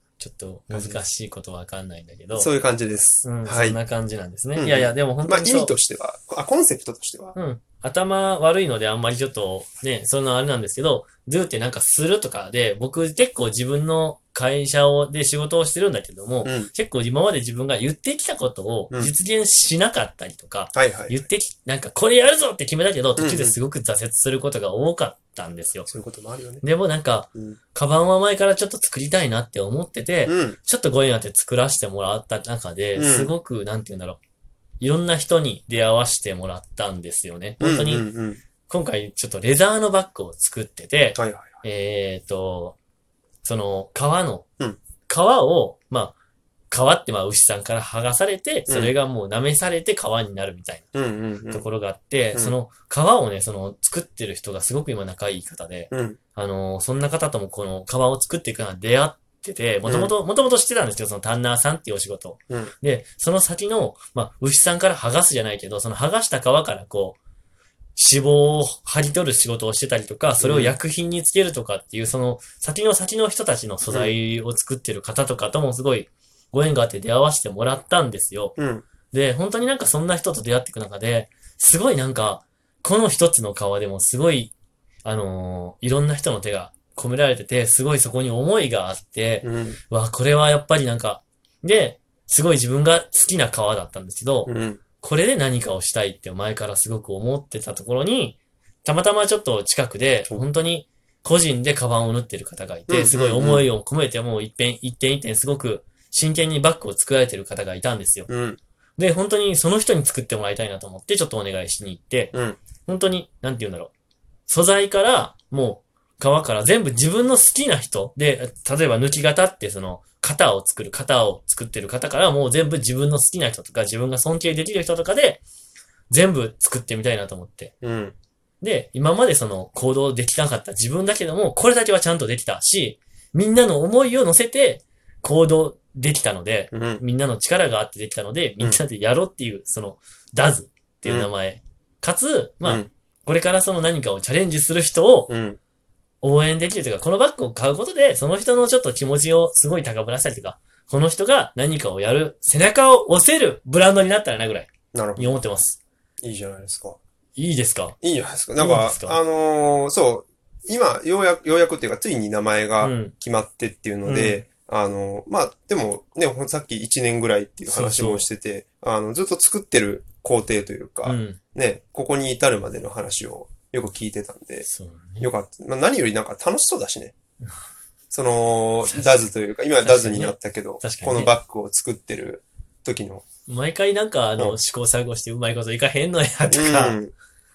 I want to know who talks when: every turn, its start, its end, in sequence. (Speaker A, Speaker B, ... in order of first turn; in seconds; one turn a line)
Speaker A: 0.2-2.5
Speaker B: 0.7-1.0
Speaker B: 2.3-3.8
Speaker A: 3.2-5.7
Speaker B: 4.5-7.3
Speaker A: 7.3-25.9
Speaker B: 16.4-16.7
Speaker B: 20.7-21.2
Speaker B: 23.2-23.6
Speaker B: 25.9-26.6
Speaker A: 26.6-34.2
Speaker B: 30.2-30.6
Speaker B: 32.9-33.3
Speaker A: 34.8-38.1
Speaker B: 37.6-38.4
Speaker A: 38.7-42.8
Speaker B: 41.1-41.6
Speaker A: 43.4-44.4
Speaker A: 45.0-46.1
Speaker A: 46.7-50.9
Speaker B: 48.7-48.9
Speaker B: 50.9-51.6
Speaker A: 51.5-67.2
Speaker B: 55.9-56.2
Speaker B: 59.8-60.1
Speaker A: 68.0-78.6
Speaker B: 70.4-70.7
Speaker B: 73.9-74.1
Speaker B: 78.6-78.8
Speaker A: 79.1-84.5
Speaker A: 85.0-108.3
Speaker B: 89.4-89.8
Speaker B: 94.5-94.8
Speaker B: 102.9-103.7
Speaker B: 108.3-108.6
Speaker A: 109.0-112.3
Speaker B: 112.3-112.6
Speaker A: 112.8-113.9
Speaker A: 114.5-125.4
Speaker A: 126.1-127.7
Speaker B: 127.8-128.1
Speaker A: 128.6-145.3
Speaker B: 136.7-137.0
Speaker B: 142.6-142.9
Speaker B: 145.3-145.6
Speaker A: 146.2-155.8
Speaker B: 154.9-155.3
Speaker B: 156.2-157.0
Speaker A: 157.3-158.0
Speaker B: 158.0-174.7
Speaker A: 158.6-159.2
Speaker A: 162.8-163.1
Speaker A: 164.0-164.4
Speaker A: 167.6-168.3
Speaker A: 171.0-171.4
Speaker A: 174.6-175.3
Speaker B: 175.2-177.1
Speaker B: 178.1-183.2
Speaker A: 178.8-181.3
Speaker A: 183.5-187.0
Speaker B: 186.5-187.1